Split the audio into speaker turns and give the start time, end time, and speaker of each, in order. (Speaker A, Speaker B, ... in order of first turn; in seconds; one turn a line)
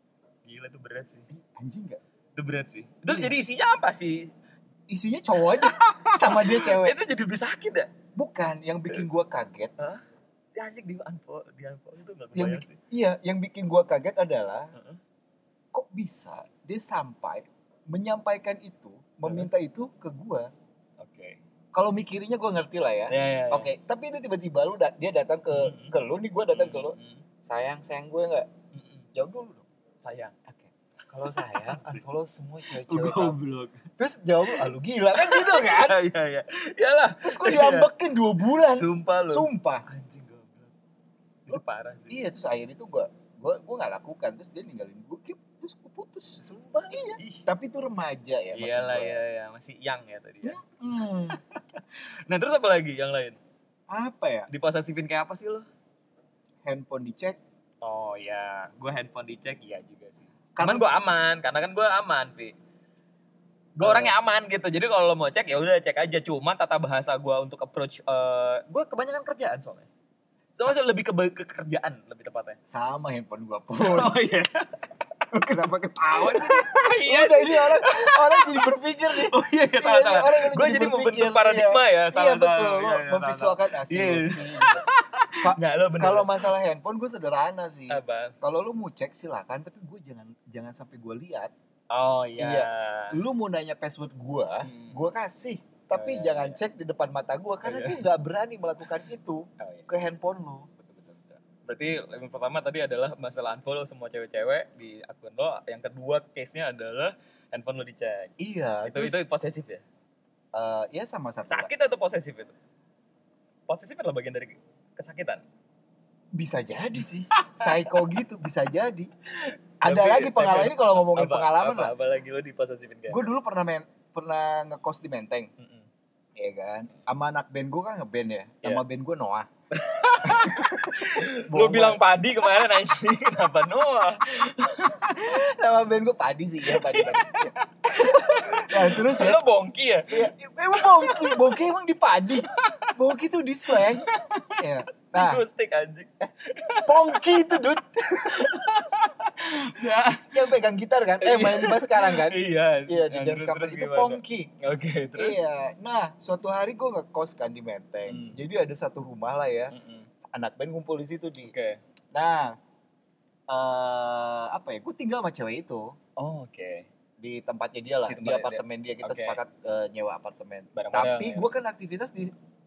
Speaker A: 0.5-1.3
Speaker B: 1.3-2.0
Speaker A: 2.4-4.3
Speaker B: 3.1-3.4
Speaker B: 4.9-7.0
Speaker A: 5.4-7.9
Speaker B: 8.2-9.7
Speaker A: 10.6-12.8
Speaker B: 12.3-14.7
Speaker A: 14.8-15.0
Speaker B: 15.7-20.5
Speaker A: 21.0-21.4
Speaker B: 21.7-28.5
Speaker A: 23.1-23.7
Speaker A: 25.5-26.0
Speaker A: 26.5-27.2
Speaker A: 28.7-29.1
Speaker B: 29.1-29.7
Speaker A: 30.0-30.4
Speaker B: 30.5-33.4
Speaker A: 31.2-32.0
Speaker A: 32.7-33.9
Speaker B: 34.0-36.0
Speaker A: 34.5-37.9
Speaker B: 37.2-39.9
Speaker A: 38.5-40.7
Speaker A: 41.5-42.2
Speaker B: 41.5-49.2
Speaker A: 46.4-47.4
Speaker A: 48.5-50.6
Speaker B: 50.4-51.4
Speaker A: 51.3-53.4
Speaker B: 53.9-54.5
Speaker A: 54.5-55.7
Speaker B: 56.6-57.4
Speaker A: 57.8-62.6
Speaker B: 60.5-60.9
Speaker A: 63.8-69.9
Speaker B: 63.8-64.2
Speaker A: 70.6-72.6
Speaker B: 72.7-74.2
Speaker A: 73.8-74.8
Speaker B: 75.3-84.8
Speaker A: 76.1-86.5
Speaker B: 85.4-91.5
Speaker A: 87.9-88.4
Speaker A: 91.9-93.2
Speaker B: 92.4-100.7
Speaker A: 94.6-95.0
Speaker A: 95.9-96.6
Speaker A: 97.6-98.1
Speaker A: 99.6-99.9
Speaker A: 100.9-108.3
Speaker B: 108.4-109.2
Speaker A: 108.9-109.8
Speaker B: 110.5-111.7
Speaker A: 111.5-112.5
Speaker A: 113.7-115.4
Speaker B: 116.3-119.1
Speaker A: 117.3-118.2
Speaker A: 119.3-123.3
Speaker B: 119.8-121.9
Speaker B: 123.1-125.5
Speaker A: 125.6-125.9
Speaker B: 126.4-129.5
Speaker A: 129.7-135.4
Speaker B: 130.2-132.0
Speaker B: 135.1-139.4
Speaker A: 136.7-141.6
Speaker B: 140.1-145.4
Speaker A: 142.4-142.9
Speaker A: 143.7-150.6
Speaker B: 146.8-148.7
Speaker B: 150.2-154.5
Speaker A: 151.2-155.4
Speaker B: 155.2-161.5
Speaker A: 158.1-158.4
Speaker A: 159.7-160.1
Speaker A: 161.4-161.8
Speaker B: 162.1-162.6
Speaker B: 163.5-165.9
Speaker A: 166.2-166.9
Speaker B: 167.2-172.3
Speaker A: 168.0-169.4
Speaker A: 170.8-171.5